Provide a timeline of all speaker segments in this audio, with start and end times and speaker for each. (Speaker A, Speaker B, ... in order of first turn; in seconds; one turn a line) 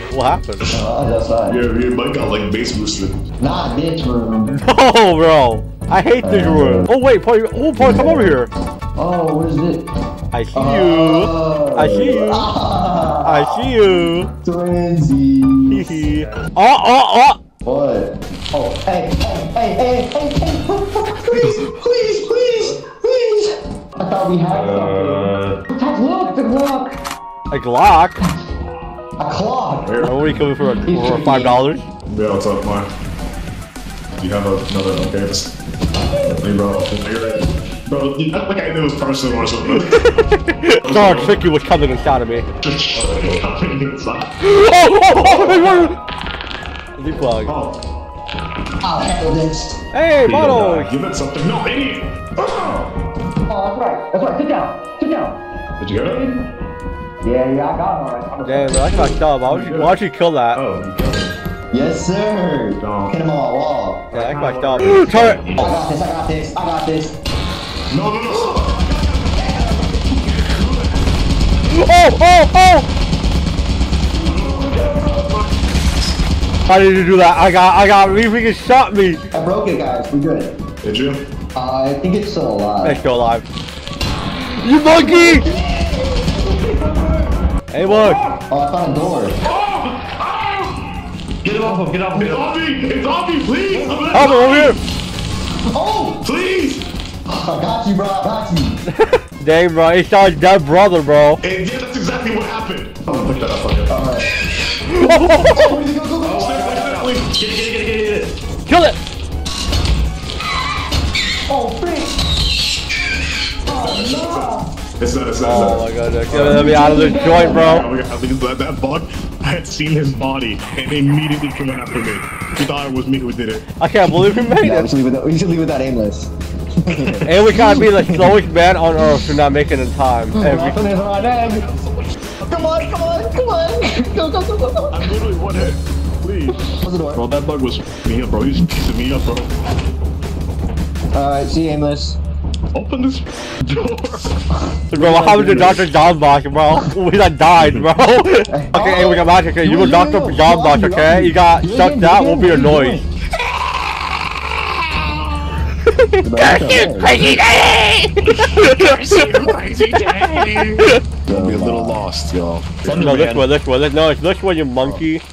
Speaker A: 0.1-0.7
Speaker B: 0.7-1.6
Speaker C: 1.5-3.2
Speaker B: 3.4-4.5
Speaker A: 4.5-8.5
Speaker B: 6.2-6.9
Speaker B: 7.8-8.4
Speaker B: 9.0-9.8
Speaker A: 10.3-12.5
Speaker B: 10.5-16.0
Speaker A: 13.2-14.3
Speaker A: 15.7-17.4
Speaker D: 16.1-16.5
Speaker B: 17.6-26.9
Speaker D: 24.5-25.6
Speaker A: 27.5-28.2
Speaker B: 29.2-29.9
Speaker C: 29.8-30.4
Speaker A: 30.0-31.9
Speaker B: 30.8-31.6
Speaker C: 32.0-32.9
Speaker C: 34.2-35.5
Speaker C: 36.3-40.0
Speaker A: 40.0-42.5
Speaker C: 40.8-41.4
Speaker C: 42.6-44.3
Speaker D: 43.0-43.4
Speaker A: 44.4-45.9
Speaker B: 45.2-45.9
Speaker A: 47.0-47.5
Speaker C: 47.5-47.7
Speaker B: 48.8-49.8
Speaker A: 49.9-50.9
Speaker D: 50.2-50.9
Speaker C: 50.6-52.9
Speaker B: 53.5-55.4
Speaker C: 55.8-56.3
Speaker B: 56.0-56.4
Speaker B: 57.2-59.2
Speaker A: 58.4-60.6
Speaker C: 59.4-60.0
Speaker D: 60.5-61.3
Speaker C: 60.8-61.1
Speaker B: 61.7-64.1
Speaker C: 62.8-63.1
Speaker D: 64.1-65.8
Speaker A: 64.1-65.8
Speaker B: 65.6-67.1
Speaker C: 67.9-71.0
Speaker B: 68.2-70.0
Speaker A: 71.7-72.9
Speaker B: 74.2-75.3
Speaker C: 74.2-75.5
Speaker A: 76.7-79.2
Speaker B: 79.3-80.5
Speaker C: 80.8-81.2
Speaker B: 81.5-83.0
Speaker A: 82.8-83.5
Speaker A: 84.6-85.5
Speaker B: 84.8-89.4
Speaker A: 87.7-88.3
Speaker C: 89.4-90.9
Speaker D: 91.4-92.5
Speaker C: 92.1-94.8
Speaker B: 93.7-94.3
Speaker A: 94.1-94.8
Speaker B: 95.7-96.2
Speaker C: 96.2-96.8
Speaker B: 97.3-98.8
Speaker A: 98.9-101.4
Speaker C: 101.4-104.0
Speaker B: 103.1-103.4
Speaker B: 103.9-104.3
Speaker A: 104.9-105.8
Speaker B: 105.3-106.5
Speaker D: 106.2-108.3
Speaker C: 106.3-107.4
Speaker A: 108.7-109.0
Speaker B: 111.5-112.1
Speaker B: 113.7-114.7
Speaker C: 113.7-123.6
Speaker A: 115.4-117.9
Speaker B: 116.4-117.8
Speaker A: 123.8-124.9
Speaker B: 124.5-126.3
Speaker B: 126.8-128.4
Speaker A: 127.2-130.8
Speaker B: 129.0-129.3
Speaker B: 130.3-131.7
Speaker C: 130.8-133.4
Speaker B: 132.5-135.1
Speaker C: 134.9-136.6
Speaker B: 136.5-137.2
Speaker C: 137.1-139.5
Speaker B: 141.1-142.2
Speaker C: 142.7-144.4
Speaker B: 144.5-145.8
Speaker A: 144.9-153.0
Speaker C: 147.6-147.8
Speaker B: 148.5-153.0
Speaker C: 154.7-155.6
Speaker A: 156.0-159.5
Speaker B: 156.2-157.2
Speaker C: 158.2-163.2
Speaker A: 160.2-161.0
Speaker B: 161.2-162.0
Speaker D: 162.8-163.5
Speaker A: 162.8-165.2